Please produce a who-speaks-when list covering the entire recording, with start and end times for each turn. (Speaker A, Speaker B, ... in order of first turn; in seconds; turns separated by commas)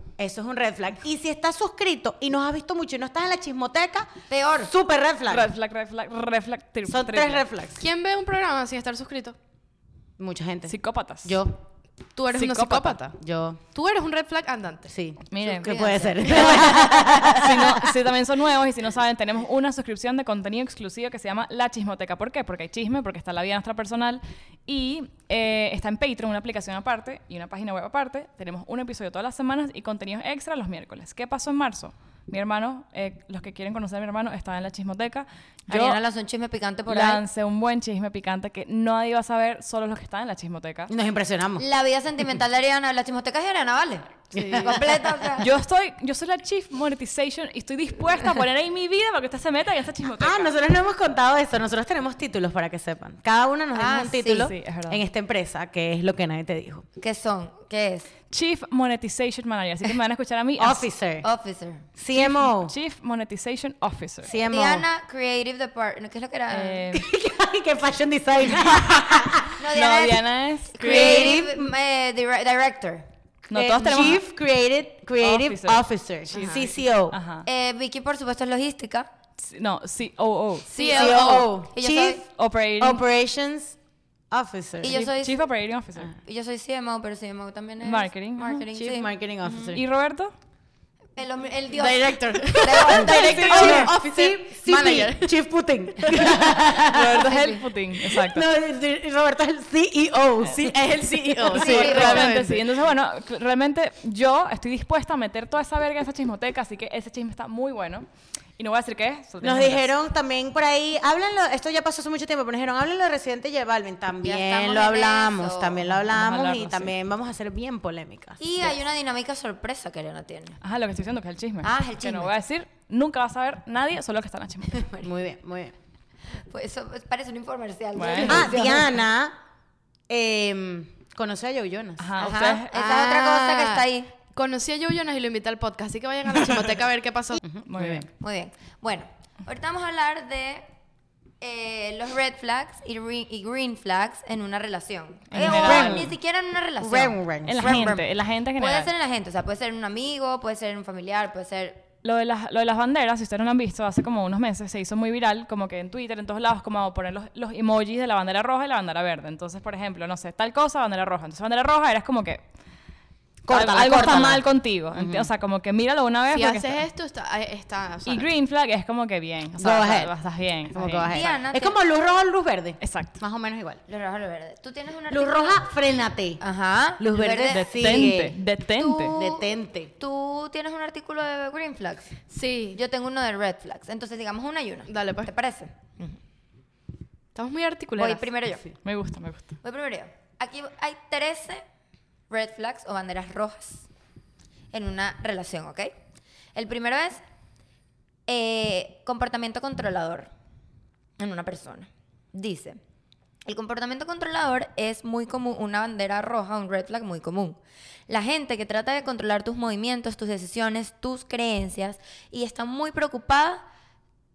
Speaker A: 0.2-4.1, Speaker B: 4.3-4.7, Speaker A: 4.6-5.5, Speaker C: 5.3-7.4, Speaker A: 6.9-7.8, Speaker D: 7.8-9.4, Speaker A: 10.2-11.6, Speaker C: 10.7-11.4, Speaker D: 12.2-13.2, Speaker C: 12.3-13.0, Speaker A: 13.2-13.6, Speaker D: 13.7-14.9, Speaker A: 14.9-17.9, Speaker C: 15.3-36.0, Speaker B: 15.4-16.6, Speaker B: 35.7-37.2, Speaker C: 36.9-40.9, Speaker A: 40.9-41.6, Speaker B: 41.6-45.5, Speaker A: 44.3-45.0, Speaker C: 45.4-50.5, Speaker A: 50.2-56.8, Speaker B: 53.7-54.5, Speaker C: 54.4-55.0, Speaker B: 57.0-58.1, Speaker C: 58.3-60.8, Speaker A: 60.6-61.2, Speaker B: 61.2-61.9, Speaker A: 62.0-62.7, Speaker C: 62.1-64.3, Speaker A: 64.2-64.9, Speaker B: 64.4-66.8, Speaker C: 66.5-67.0, Speaker A: 66.9-69.5, Speaker B: 69.6-73.0, Speaker C: 69.7-71.4, Speaker A: 70.8-71.7, Speaker C: 73.5-74.2, Speaker A: 73.5-77.2, Speaker C: 75.2-75.8, Speaker D: 76.3-76.7, Speaker C: 77.1-77.5, Speaker B: 77.5-79.1, Speaker C: 79.4-80.7, Speaker D: 80.7-81.5, Speaker B: 80.8-82.2, Speaker A: 80.8-83.8, Speaker C: 82.3-83.0, Speaker A: 84.3-85.0, Speaker B: 84.8-85.4, Speaker C: 84.9-86.1, Speaker B: 86.2-89.5, Speaker C: 87.8-88.7, Speaker A: 88.7-89.8, Speaker C: 89.5-90.3, Speaker B: 91.2-93.9, Speaker D: 91.7-95.3, Speaker A: 92.3-102.3, Speaker C: 96.6-98.4, Speaker D: 97.2-97.6, Speaker D: 100.6-102.6, Speaker C: 101.4-108.0, Speaker B: 101.5-102.4, Speaker C: 108.6-109.9, Speaker A: 109.4-118.7, Speaker B: 114.2-115.9, Speaker C: 116.0-116.9, Speaker B: 118.4-120.6, Speaker C: 120.6-125.0, Speaker B: 121.6-122.3, Speaker A: 124.7-125.7, Speaker B: 126.5-129.0, Speaker C: 128.0-128.6, Speaker A: 128.2-129.3, Speaker A: 130.1-133.6, Speaker C: 132.0-132.7, Speaker B: 132.2-134.1, Speaker D: 133.3-137.4, Speaker A: 137.4-138.1, Speaker C: 137.7-138.1, Speaker B: 138.2-140.7, Speaker B: 141.4-148.0, Speaker C: 145.3-146.1, Speaker A: 145.4-146.1, Speaker A: 146.8-147.9, Speaker C: 147.4-148.9, Speaker B: 148.6-151.8, Speaker C: 152.0-162.4, Speaker A: 163.4-165.3, Speaker C: 163.5-166.8, Speaker D: 166.3-168.3, Speaker C: 168.1-171.2, Speaker A: 169.6-170.1, Speaker A: 170.7-173.8, Speaker B: 171.1-171.7, Speaker C: 172.8-173.1, Speaker B: 173.9-175.7, Speaker A: 175.1-176.4, Speaker B: 176.4-178.1, Speaker A: 177.0-178.4, Speaker C: 177.5-179.1, Speaker B: 178.8-182.2, Speaker A: 179.1-179.9, Speaker D: 182.3-182.8, Speaker B: 182.7-186.2, Speaker D: 184.9-185.3, Speaker D: 187.3-188.3, Speaker B: 188.0-188.7, Speaker C: 188.8-189.5, Speaker B: 189.6-191.6, Speaker B: 192.3-193.8, Speaker B: 194.7-195.9, Speaker B: 196.5-197.2, Speaker B: 198.3-200.3, Speaker B: 201.2-202.8, Speaker B: 203.4-213.6